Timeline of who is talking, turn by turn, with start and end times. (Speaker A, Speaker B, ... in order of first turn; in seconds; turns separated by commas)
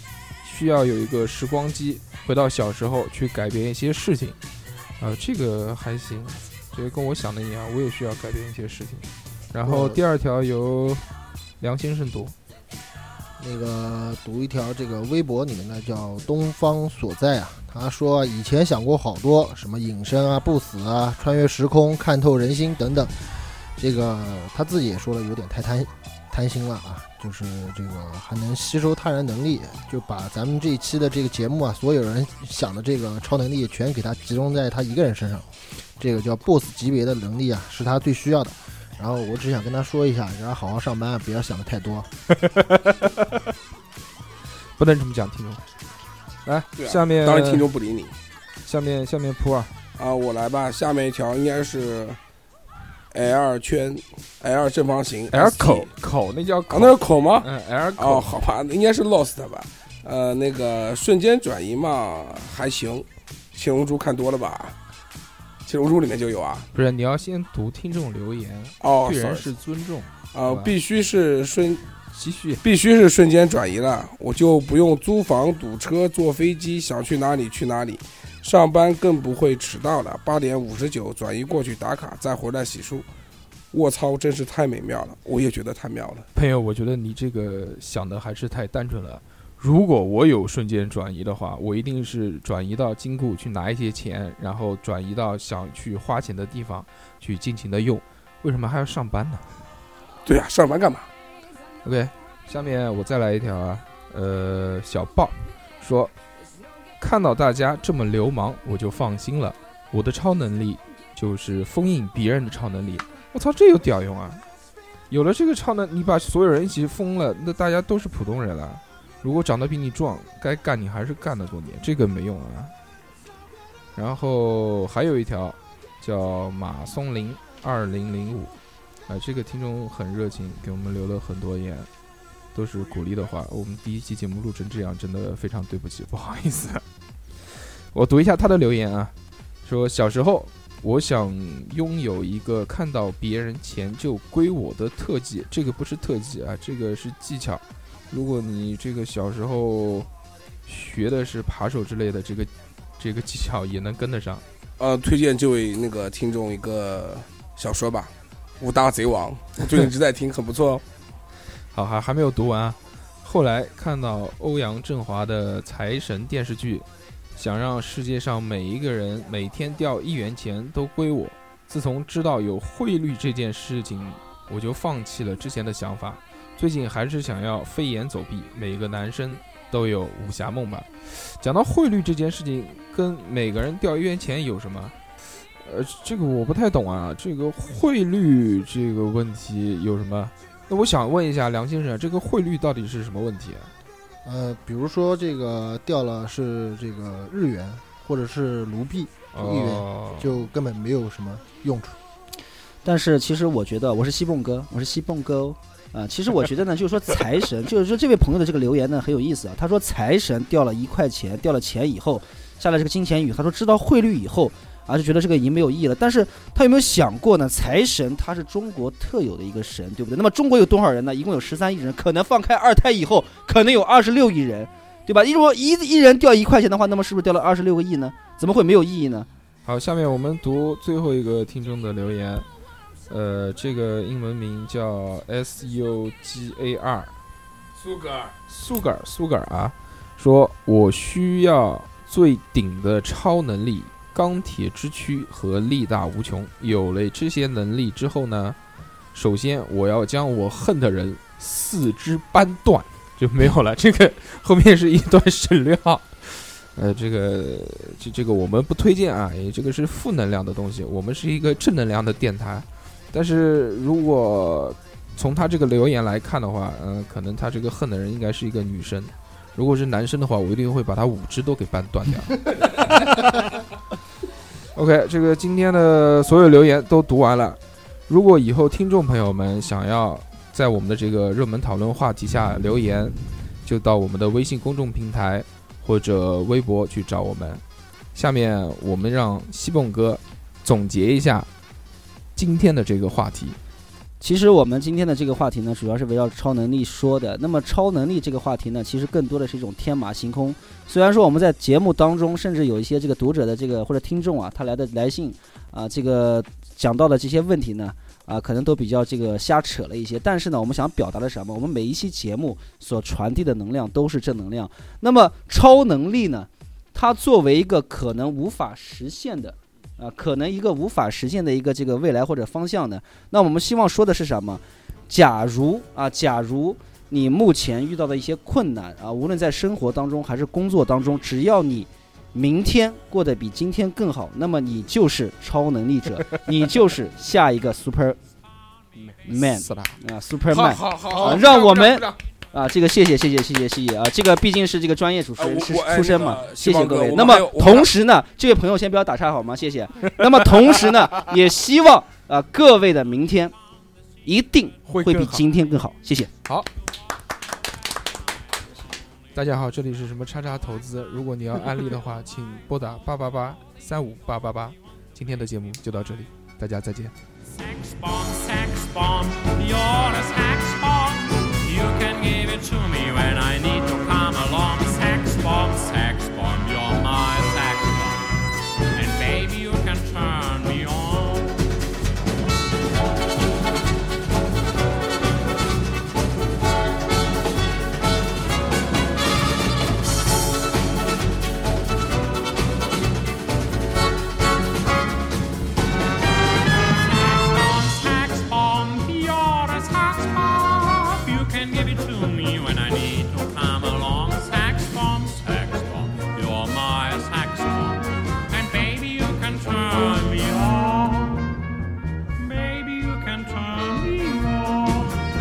Speaker A: 0.4-4.4, Speaker A: 5.0-11.1, Speaker B: 9.6-10.0, Speaker A: 11.6-12.3, Speaker B: 13.4-42.1, Speaker A: 42.3-43.3, Speaker A: 44.8-45.6, Speaker A: 46.4-47.7, Speaker C: 46.8-48.1, Speaker A: 48.6-49.7, Speaker C: 50.0-52.2, Speaker C: 53.1-55.9, Speaker A: 55.3-58.4, Speaker C: 56.7-64.8, Speaker C: 65.7-66.7, Speaker A: 66.7-70.7, Speaker C: 68.8-69.5, Speaker C: 70.3-71.8, Speaker A: 72.1-72.6, Speaker C: 72.6-83.1, Speaker C: 83.7-86.3, Speaker A: 86.3-99.6, Speaker C: 100.2-101.1, Speaker A: 101.8-106.1, Speaker A: 107.0-114.4, Speaker A: 115.1-122.7, Speaker A: 123.9-128.5, Speaker A: 129.1-131.9, Speaker A: 132.5-136.8, Speaker A: 137.9-139.1, Speaker A: 139.6-150.1, Speaker A: 150.6-154.4, Speaker C: 154.8-160.8, Speaker A: 161.7-184.9, Speaker A: 185.6-193.7, Speaker B: 194.2-202.0, Speaker A: 199.3-200.5, Speaker D: 202.8-229.3, Speaker A: 229.6-232.4, Speaker A: 233.1-237.1, Speaker C: 237.8-238.3, Speaker A: 238.5-248.6, Speaker A: 249.1-273.6, Speaker A: 274.7-287.6, Speaker A: 288.1-291.5, Speaker A: 292.3-293.6, Speaker D: 294.2-338.2, Speaker D: 339.2-353.5, Speaker A: 339.4-339.9, Speaker A: 340.6-342.2, Speaker C: 340.8-341.4, Speaker C: 345.4-347.9, Speaker D: 354.2-356.3, Speaker A: 354.9-355.4, Speaker A: 359.3-367.1, Speaker E: 367.5-381.6, Speaker E: 396.7-411.6, Speaker E: 412.4-415.2